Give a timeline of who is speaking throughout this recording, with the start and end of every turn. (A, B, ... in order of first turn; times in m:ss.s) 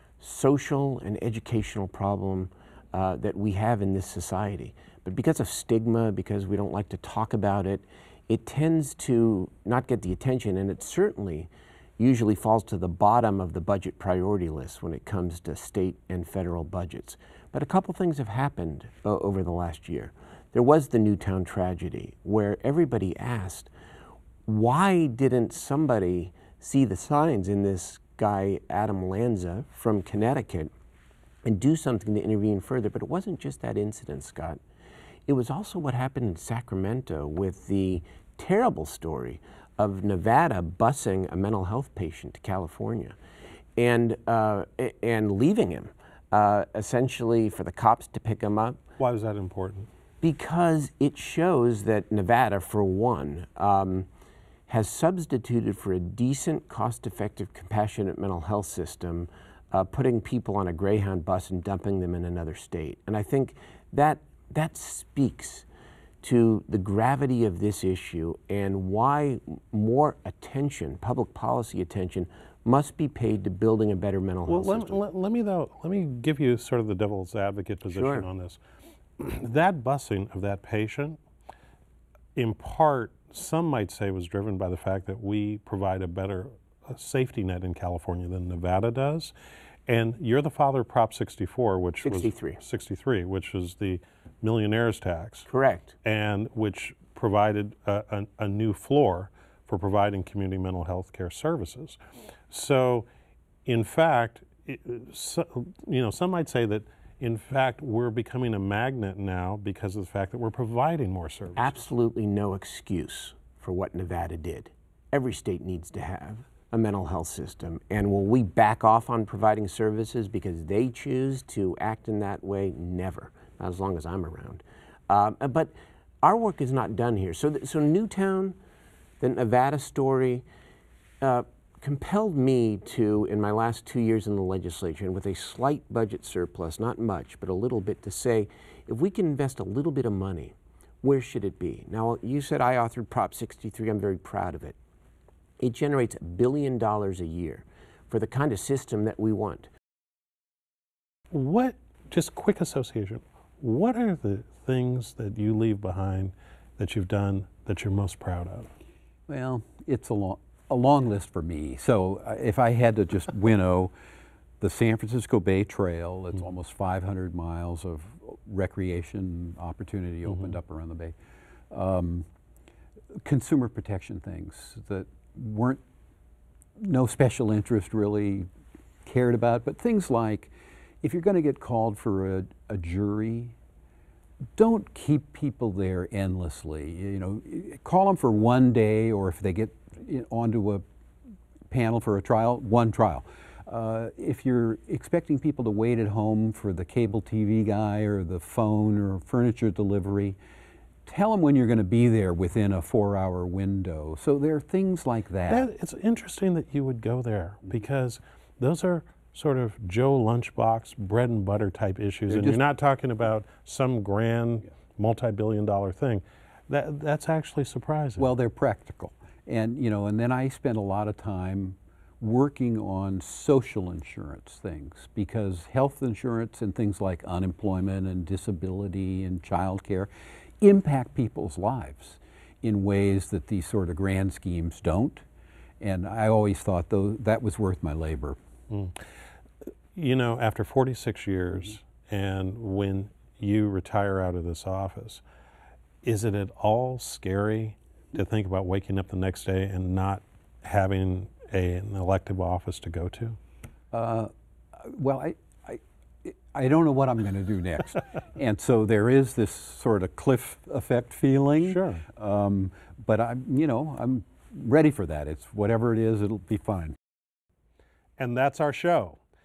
0:00.2-0:23.7 A
0:24.5-0:30.7 A
0:31.4-0:34.6 A
0:35.3-0:43.2 A
0:43.8-0:48.8 A
0:49.0-0:49.9 B
0:50.2-0:54.1 A
0:54.7-1:05.6 A
1:06.2-1:15.0 A
1:14.5-1:18.6 B
1:17.9-1:18.3 A
1:19.2-1:21.2 B
1:22.4-1:29.3 B
1:29.9-1:35.5 B
1:32.0-1:32.6 A
1:35.5-1:36.0 A
1:36.0-1:42.0 B
1:42.5-1:43.1 B
1:43.7-1:51.8 B
1:51.6-2:08.6 A
2:09.2-2:10.4 A
2:11.2-2:24.8 A
2:25.6-2:29.7 A
2:31.3-2:38.7 B
2:39.3-2:43.9 C
2:44.6-2:51.1 C
2:50.3-2:50.6 B
2:51.7-2:52.3 C
2:53.2-2:55.8 C
2:56.8-2:58.5 C
2:59.0-3:00.5 C
3:01.0-3:03.6 C
3:04.6-3:10.8 C
3:11.7-3:20.4 C
3:21.1-3:25.7 C
3:25.5-3:38.3 B
3:32.3-3:32.6 C
3:38.2-3:50.1 C
3:50.6-3:55.2 C
3:55.8-3:58.4 C
3:58.7-3:59.0 B
4:00.0-4:05.2 B
4:06.0-4:13.4 B
4:13.9-4:27.0 C
4:21.6-4:22.0 B
4:28.2-4:29.2 B